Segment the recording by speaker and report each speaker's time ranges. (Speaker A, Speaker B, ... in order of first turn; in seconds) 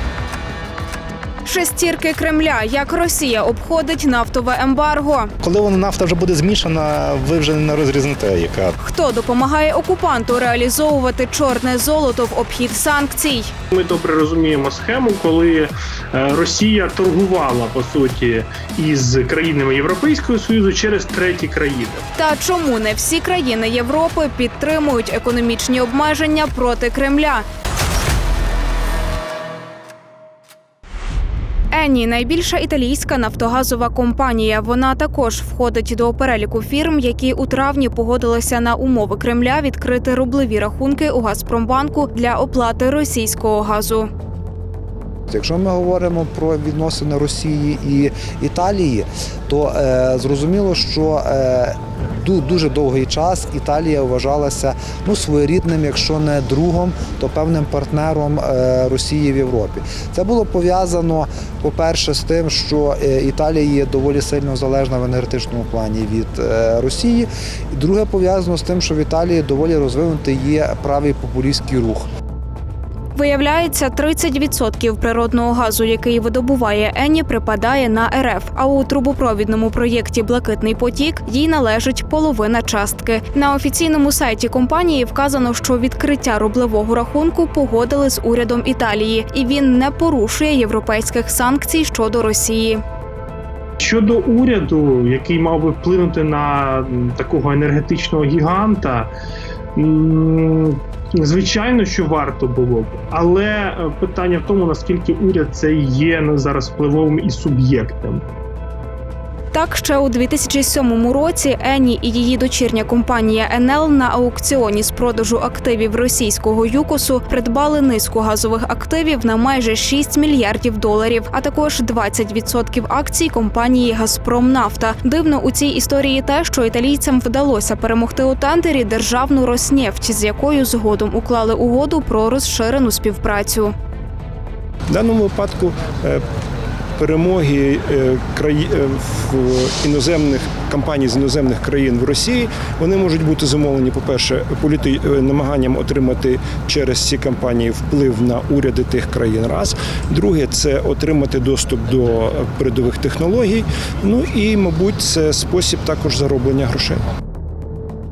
Speaker A: 1.4-5.3, 8.8-13.5, 22.1-27.4, 31.7-44.1, 73.1-92.8, 109.5-133.7
Speaker B: 5.4-8.8
Speaker C: 13.7-22.1, 93.8-99.1, 99.8-108.2
Speaker D: 45.3-72.0
Speaker E: 134.9-136.2, 137.0-157.0